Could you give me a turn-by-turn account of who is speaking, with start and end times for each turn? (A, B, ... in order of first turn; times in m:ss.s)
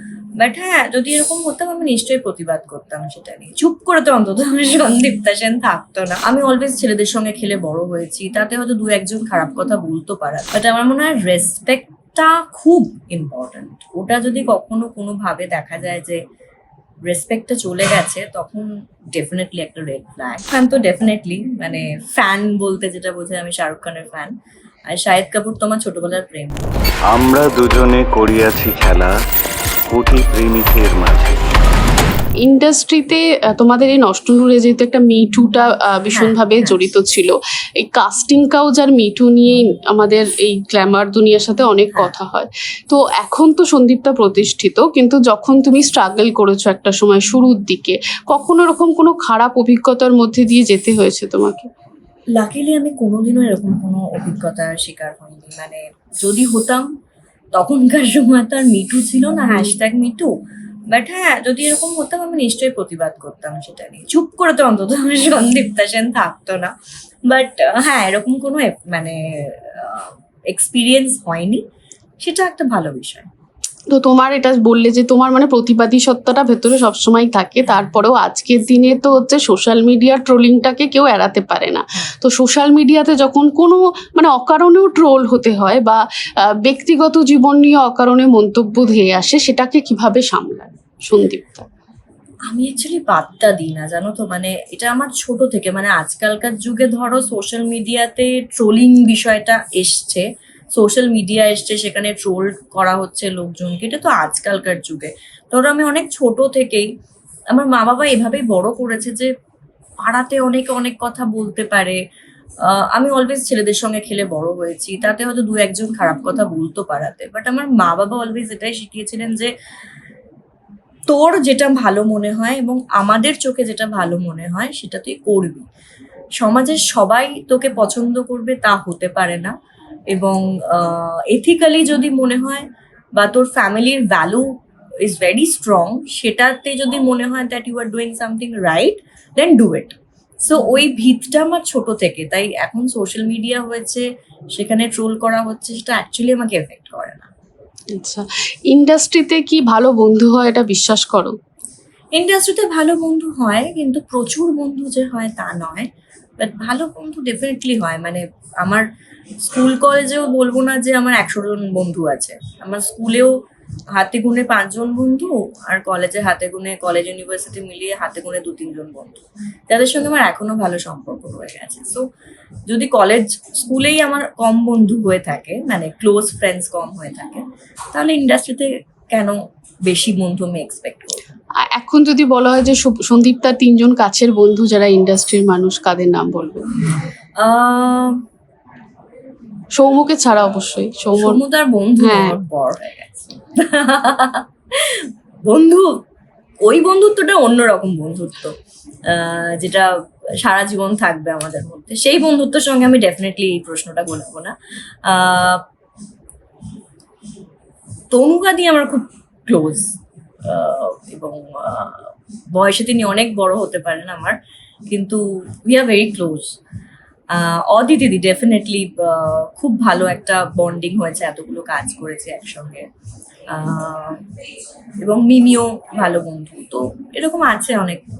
0:00.4-0:16.2 A
0:17.0-0:24.3 A
0:24.9-0:26.7 A
0:27.1-0:29.1 B
0:29.9-0:31.3 B
0:32.4-0:51.7 C
0:36.1-0:36.8 A
0:52.3-0:56.9 A
0:57.5-1:00.3 A
1:00.9-1:06.7 A
1:07.3-1:11.6 A
1:12.2-1:13.3 A
1:13.9-1:26.0 C
1:26.6-1:31.7 C
1:32.5-1:46.9 A
1:47.5-1:49.3 A
1:50.0-1:52.0 A
1:52.6-1:59.5 A
2:01.1-2:05.6 A
2:06.4-2:09.5 A
2:10.1-2:14.5 A
2:15.0-2:27.3 A
2:27.9-2:31.4 C
2:32.1-2:35.9 A
2:36.4-2:38.8 A
2:39.4-2:43.3 A
2:43.9-2:52.0 A
2:52.7-3:01.2 A
3:01.6-3:06.7 C
3:07.4-3:08.2 A
3:09.8-3:11.4 C
3:11.2-3:16.0 A
3:12.0-3:12.4 C
3:16.6-3:18.6 A
3:19.1-3:24.5 A
3:25.0-3:25.6 A
3:28.1-3:29.9 A
3:30.5-3:34.4 A
3:34.9-3:36.6 A
3:37.3-3:42.8 A
3:43.5-3:44.2 A
3:45.0-3:48.0 A